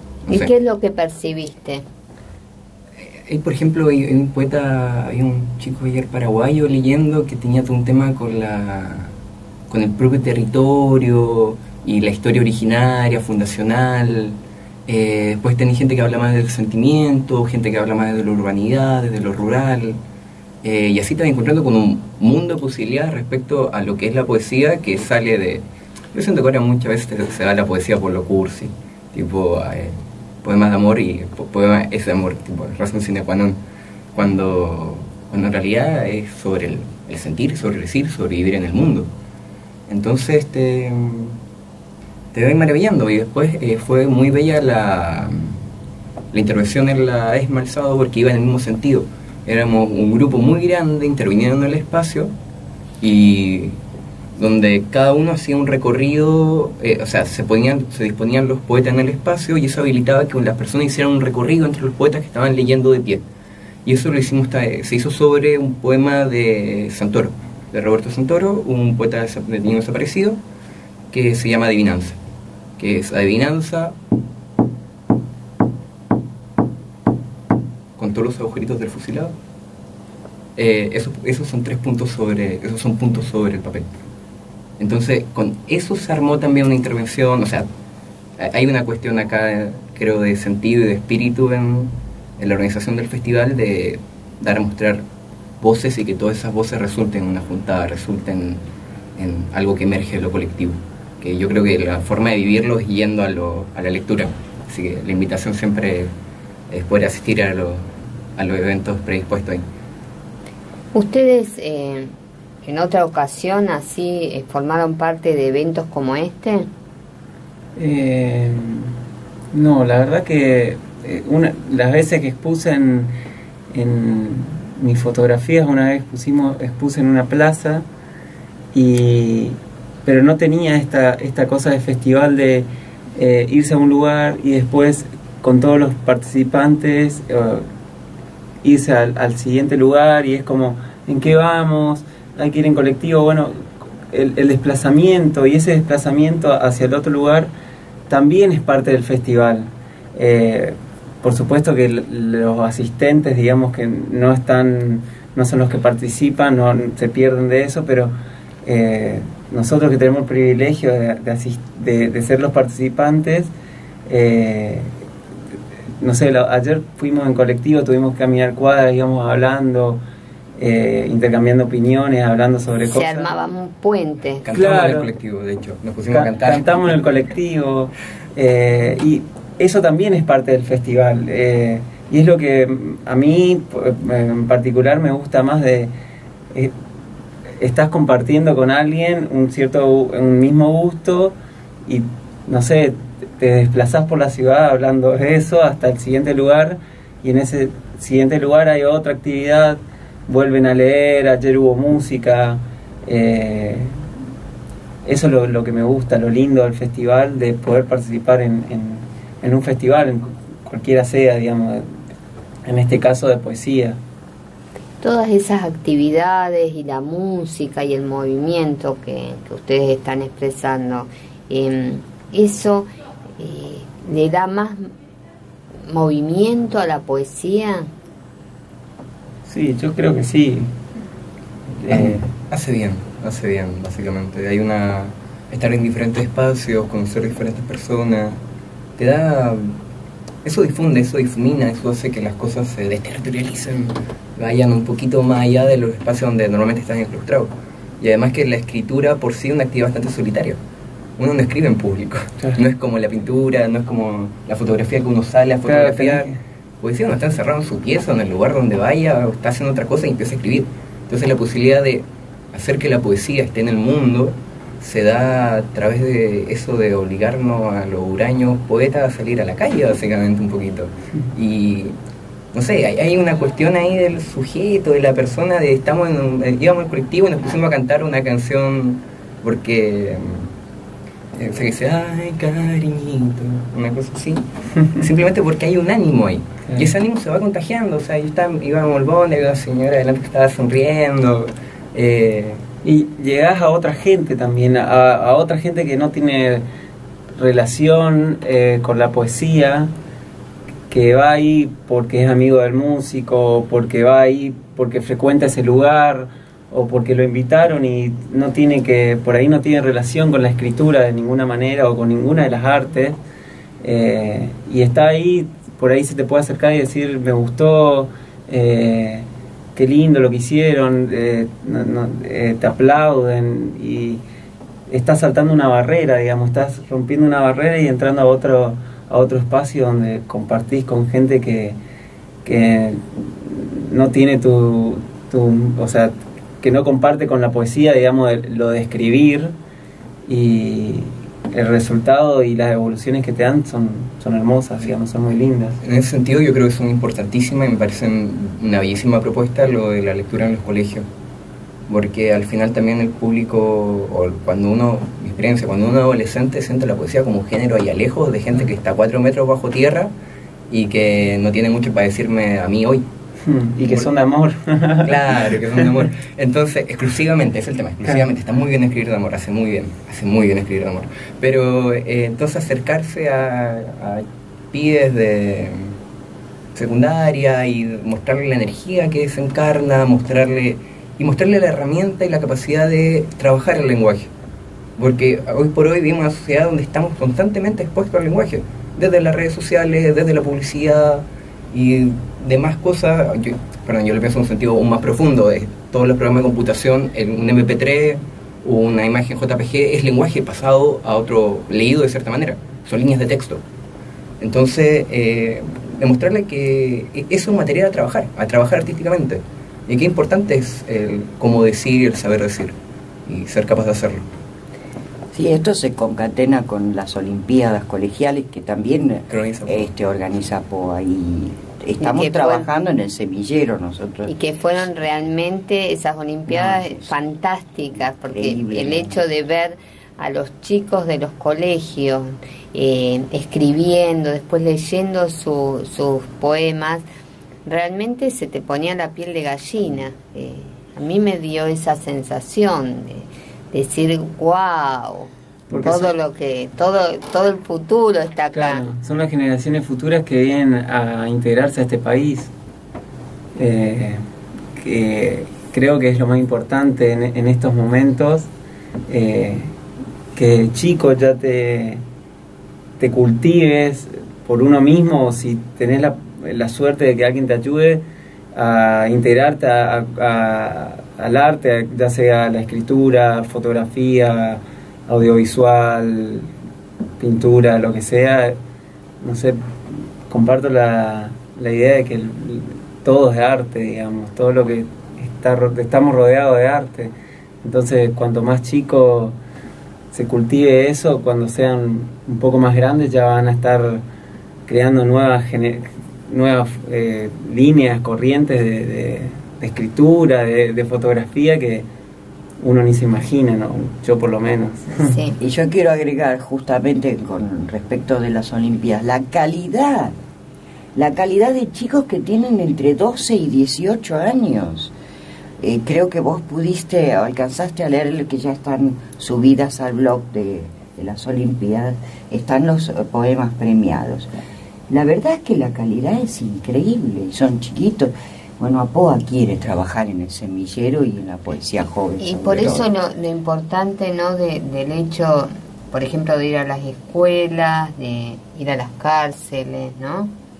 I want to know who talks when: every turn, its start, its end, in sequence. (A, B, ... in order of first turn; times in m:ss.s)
0:00.2-0:00.5 A
0:00.3-0:01.8 B
0:03.2-0:09.1 A
0:09.7-0:20.0 A
0:20.6-0:33.6 A
0:34.1-0:39.1 A
0:39.9-0:41.4 A
0:42.3-0:45.6 A
0:46.3-0:52.3 A
0:53.0-0:53.8 A
0:54.4-1:03.2 A
1:03.8-1:10.4 A
1:11.1-1:12.2 A
1:12.8-1:13.9 A
1:18.0-1:19.3 A
1:20.6-1:23.9 A
1:24.8-1:27.7 A
1:28.4-1:35.0 A
1:35.6-1:38.6 A
1:39.2-1:46.1 A
1:46.7-1:49.6 A
1:50.9-1:52.1 B
1:52.6-1:56.7 B
1:57.8-1:58.9 C
1:59.5-2:03.1 C
2:03.7-2:07.8 C
2:08.7-2:17.6 C
2:18.6-2:27.5 C
2:28.1-2:43.5 C
2:44.1-2:44.9 C
2:46.0-2:50.0 C
2:50.6-2:53.3 C
2:52.8-2:54.5 B
2:54.4-2:56.8 A
2:54.5-2:55.1 C
2:56.1-3:05.9 C
3:07.6-3:23.9 C
3:25.0-3:31.9 C
3:32.6-3:34.0 C
3:35.0-3:44.9 B
3:45.9-3:47.9 B
3:49.4-3:50.7 C
3:51.8-3:52.3 C
3:51.9-3:58.4 A
3:59.0-3:59.8 A
4:00.4-4:10.6 A
4:11.2-4:31.9 A
4:15.6-4:16.4 C
4:32.5-4:40.5 A
4:41.4-4:52.6 A
4:52.8-4:56.6 C
4:57.3-4:59.9 C
5:00.9-5:13.2 C
5:13.8-5:24.2 C
5:24.9-5:31.8 C
5:32.4-5:39.5 C
5:40.2-5:45.8 C
5:45.8-5:51.0 A
5:51.9-6:00.1 A
6:00.7-6:03.0 A
6:03.4-6:05.9 C
6:03.8-6:04.1 A
6:05.0-6:15.9 A
6:16.7-6:24.3 A
6:25.0-6:43.6 A
6:44.4-6:52.7 A
6:53.2-6:54.3 A
6:55.3-7:04.3 D
6:59.3-6:59.9 A
7:02.0-7:02.7 B
7:04.3-7:17.0 B
7:06.5-7:07.1 D
7:08.3-7:09.2 D
7:17.6-7:28.8 B
7:25.7-7:26.1 C
7:28.5-7:32.5 C
7:33.6-7:34.2 C
7:34.8-7:38.5 C
7:39.1-7:39.7 C
7:40.3-7:42.0 C
7:43.0-7:48.0 C
7:48.5-7:56.5 C
7:57.2-7:58.6 C
7:59.2-8:09.4 C
8:10.1-8:14.0 C
8:14.6-8:21.8 C
8:22.6-8:25.2 C
8:25.0-8:25.4 B
8:25.4-8:30.1 D
8:30.9-8:34.9 D
8:35.6-8:44.3 D
8:44.9-8:52.9 D
8:52.2-9:00.3 B